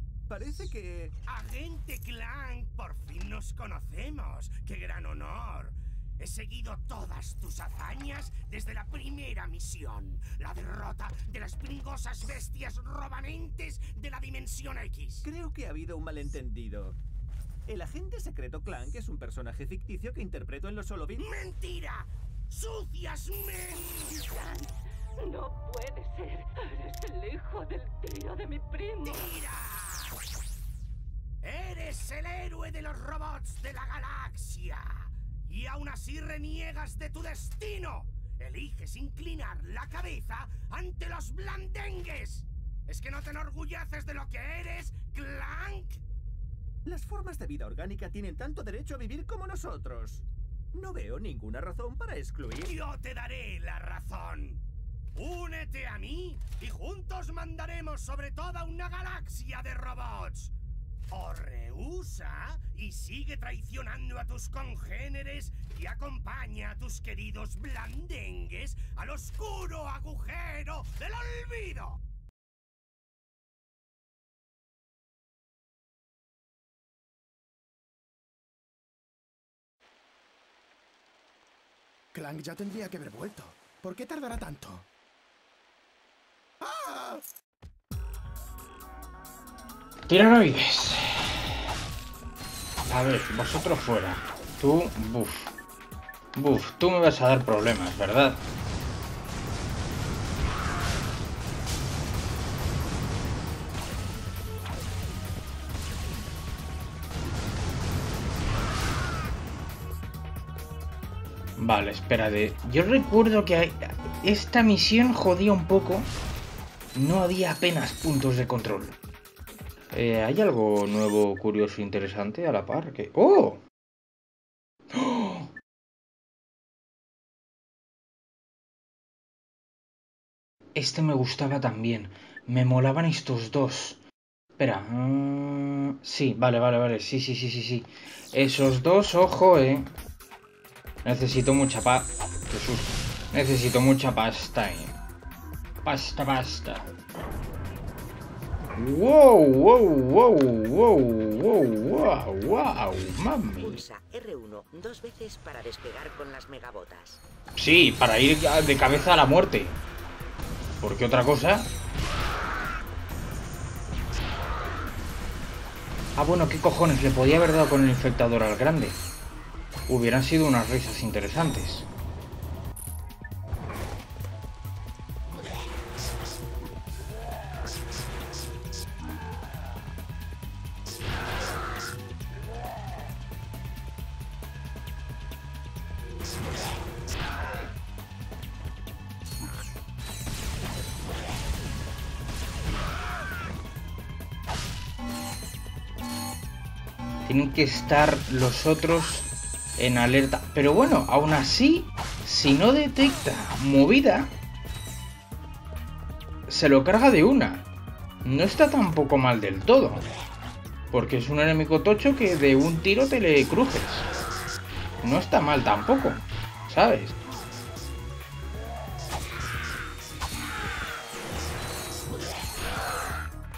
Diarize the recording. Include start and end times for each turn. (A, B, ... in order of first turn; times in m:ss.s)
0:00.3-0:01.1 A
0:01.2-0:15.2 B
0:15.2-0:17.0 A
0:17.7-0:21.2 A
0:21.2-0:24.2 B
0:24.2-0:29.3 C
0:29.0-0:30.2 B
0:31.4-0:46.0 B
0:46.8-0:52.7 A
0:52.7-0:54.6 B
0:55.1-1:00.5 B
1:01.1-1:12.0 B
1:22.1-1:24.8 D
1:26.6-1:27.2 D
1:30.1-1:31.6 E
1:32.9-1:35.5 E
1:36.3-1:38.4 E
1:51.6-1:56.1 E
1:56.9-1:59.0 E
1:59.9-2:03.6 E
2:04.9-2:05.5 E
2:10.7-2:14.0 E
2:14.6-2:19.9 E
2:21.0-2:24.9 E
2:25.8-2:26.9 E
2:28.8-2:33.8 E
2:33.6-2:37.2 F
2:37.6-2:39.8 E
2:40.8-2:41.7 E
2:46.2-2:49.0 E
2:49.9-2:51.9 E
3:17.2-3:24.3 E
3:26.5-3:27.6 E
3:28.2-3:30.0 E
3:30.9-3:34.1 E
3:35.0-3:37.1 E